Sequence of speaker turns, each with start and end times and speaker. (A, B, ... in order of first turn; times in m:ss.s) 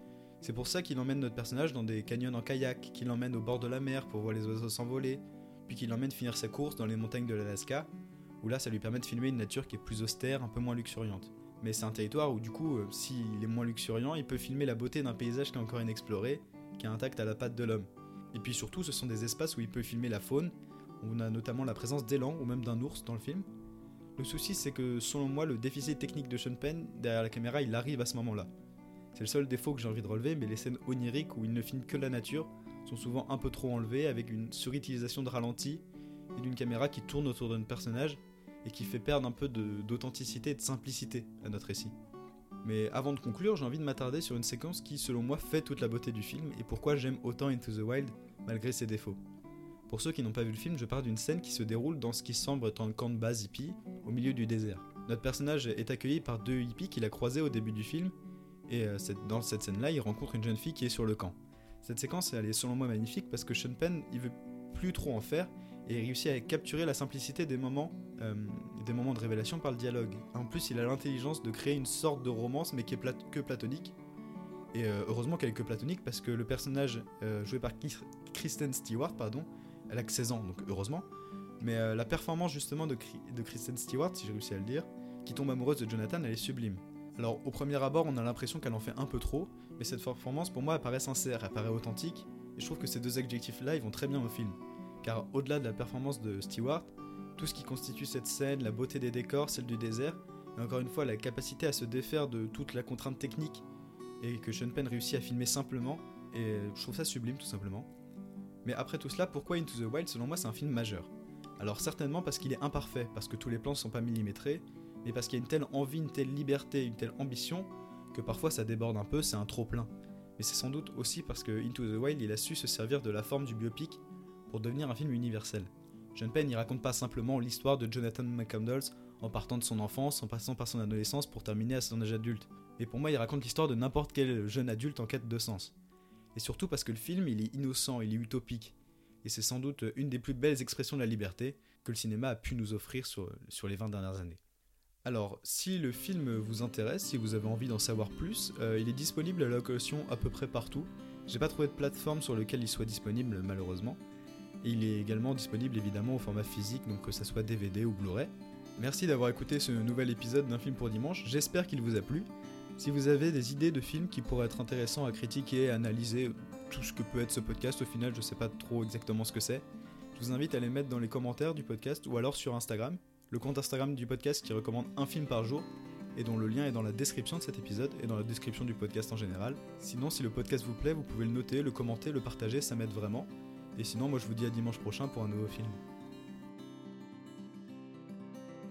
0:00.4-0:07.9 A
0:08.4-0:23.5 A
0:24.2-0:28.5 A
0:29.1-0:35.8 A
0:36.3-0:41.9 A
0:42.6-0:49.2 A
0:49.9-0:58.1 A
0:58.7-1:14.0 A
1:14.7-1:21.1 A
1:21.6-1:43.6 A
1:44.2-1:47.9 A
1:48.6-2:15.7 A
2:16.3-2:24.4 A
2:25.0-2:34.0 A
2:34.6-2:49.6 A
2:50.2-3:05.8 A